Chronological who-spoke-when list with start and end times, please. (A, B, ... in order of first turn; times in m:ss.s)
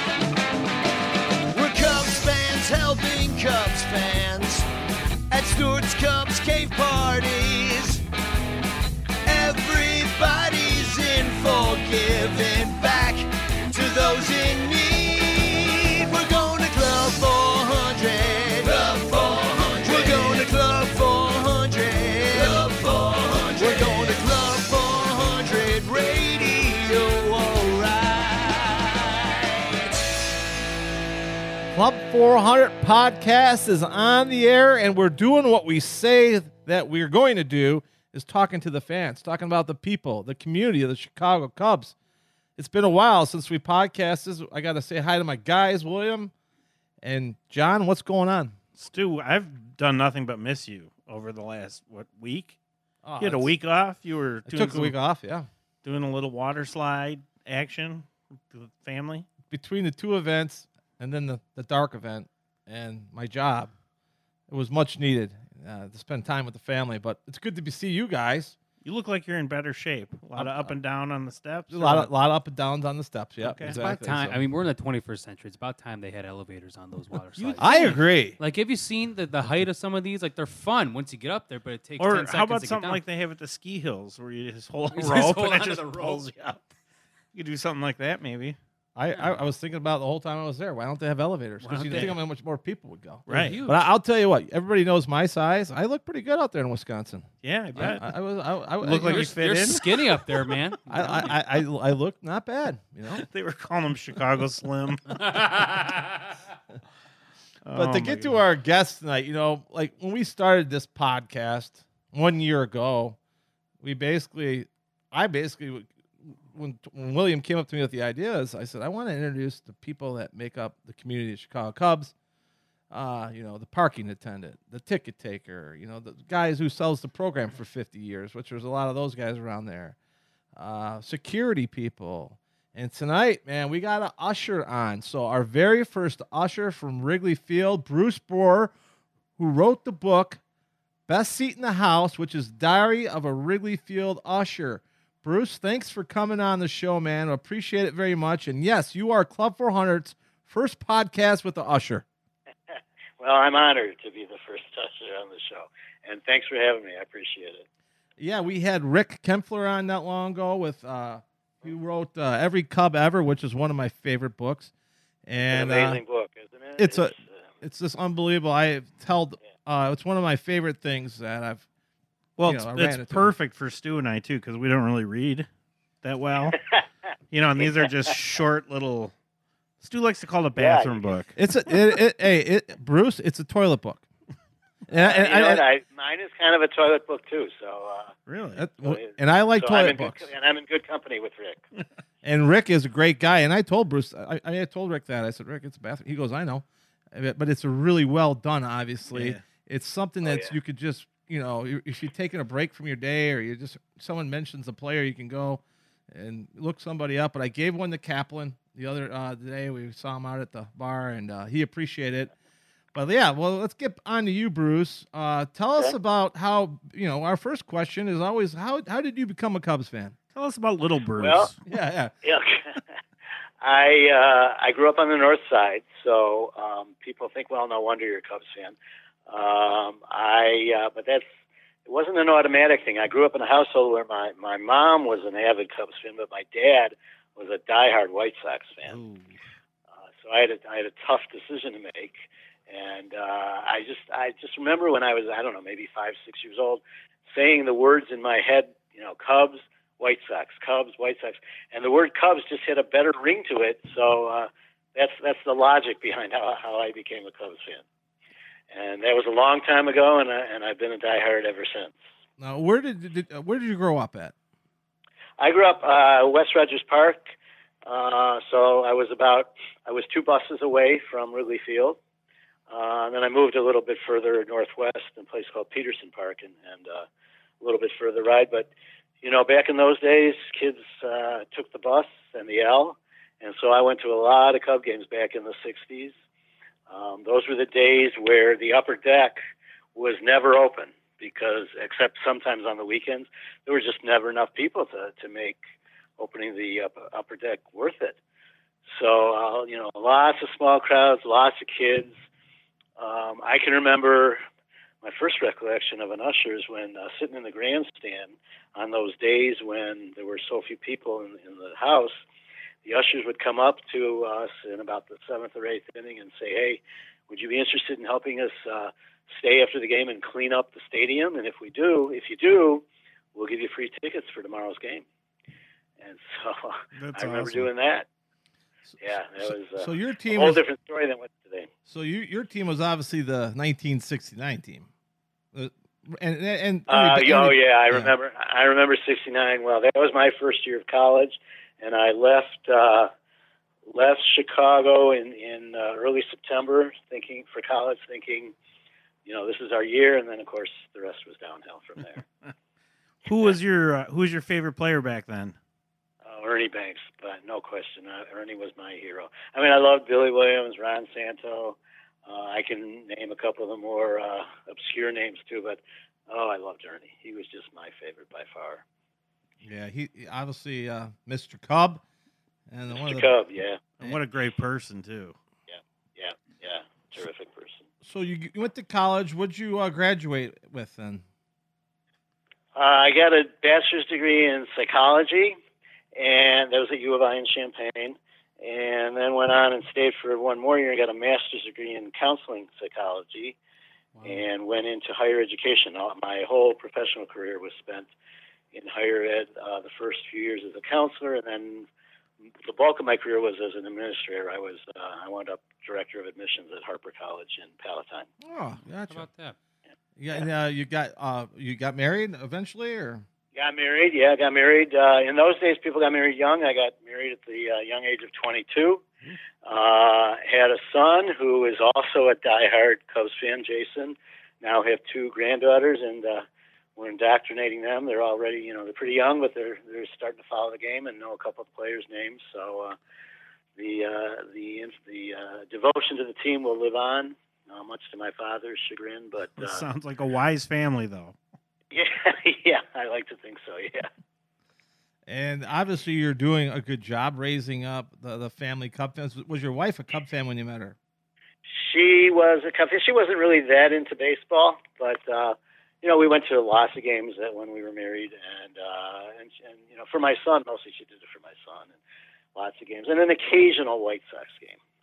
0:01.5-0:04.6 A
0:05.3-0:08.0 A
0:09.2-0:29.8 A
0:31.7-0:41.9 B
0:42.6-0:46.3 B
0:47.0-0:48.6 B
0:48.8-0:52.6 C
0:53.0-0:53.5 B
0:53.2-0:54.9 C
0:54.4-0:55.5 B
0:55.8-0:59.3 C
0:59.5-1:03.7 B
1:04.5-1:08.6 B
1:08.8-1:12.1 C
1:10.4-1:10.8 B
1:11.7-1:14.4 B
1:13.4-1:13.8 C
1:13.6-1:23.0 D
1:17.4-1:18.0 C
1:17.6-1:18.4 B
1:22.0-1:26.6 C
1:24.9-1:26.2 D
1:27.3-1:28.6 C
1:29.0-1:39.4 B
1:31.6-1:32.2 D
1:31.7-1:32.2 C
1:33.3-1:33.6 C
1:33.3-1:33.9 D
1:37.4-1:38.2 C
1:37.7-1:38.0 D
1:38.8-1:40.5 C
1:39.0-1:41.4 D
1:40.9-1:43.3 B
1:43.1-1:45.8 C
1:45.3-1:46.0 D
1:47.6-1:48.4 C
1:47.7-1:53.2 B
1:53.8-2:02.1 B
2:02.9-2:10.0 B
2:10.5-2:18.7 B
2:19.4-2:20.4 B
2:21.1-2:32.0 B
2:32.7-2:37.6 E
2:38.2-2:44.7 B
2:45.2-2:46.0 B
2:45.4-2:47.5 E
2:46.8-2:51.6 B
2:52.4-2:55.5 C
2:52.4-2:53.3 B
2:56.0-2:56.6 C
2:57.3-2:59.1 C
2:59.8-3:01.4 C
3:00.6-3:01.1 E
3:01.3-3:04.0 B
3:04.9-3:05.6 B
3:04.9-3:08.1 E
3:08.3-3:08.6 C
3:08.5-3:10.2 B
3:08.8-3:11.6 E
3:12.2-3:32.3 B
3:19.1-3:19.4 C
3:20.2-3:20.5 E
3:32.9-3:40.2 B
3:40.3-3:41.6 C
3:41.2-3:41.5 E
3:41.7-3:42.1 B
3:42.2-3:42.8 E
3:43.6-3:48.8 E
3:49.3-3:51.3 E
3:51.8-3:59.0 E
3:58.8-3:59.4 C
4:00.2-4:02.1 E
4:02.7-4:17.8 E
4:18.7-4:22.0 E
4:22.4-4:24.3 B
4:25.4-4:27.3 E
4:27.8-4:32.0 E
4:32.7-4:37.0 E
4:37.6-4:38.7 E
4:39.2-4:46.1 E
4:46.9-4:49.4 E
4:49.9-4:55.6 E
4:56.2-4:58.2 E
4:58.9-5:02.1 E
5:03.0-5:04.4 E
5:05.0-5:12.2 E
5:12.8-5:22.8 E
5:23.3-5:25.0 E
5:26.0-5:28.1 E
5:27.0-5:27.7 C
5:28.9-5:30.6 B
5:29.0-5:31.7 E
5:31.8-5:34.9 B
5:35.5-5:38.1 B
5:36.9-5:43.1 E
5:43.9-5:48.5 E
5:49.2-5:52.2 E
5:53.2-5:55.6 C
5:56.2-6:08.8 E
6:09.6-6:12.0 B
6:12.7-6:13.3 B
6:12.9-6:13.8 E
6:14.0-6:15.4 C
6:15.7-6:17.8 E
6:18.0-6:21.2 B
6:22.7-6:25.6 E
6:26.1-6:33.6 E
6:34.2-6:38.1 E
6:38.7-6:41.9 E
6:42.6-6:48.3 E
6:48.4-6:49.3 B
6:48.8-6:49.6 D
6:50.2-6:53.2 B
6:53.5-6:59.0 E
6:59.6-7:06.4 E
7:07.0-7:13.0 E
7:13.8-7:19.8 E
7:19.6-7:21.4 C
7:21.9-7:24.1 E
7:25.3-7:31.0 B
7:31.7-7:42.0 E
7:42.5-7:44.8 E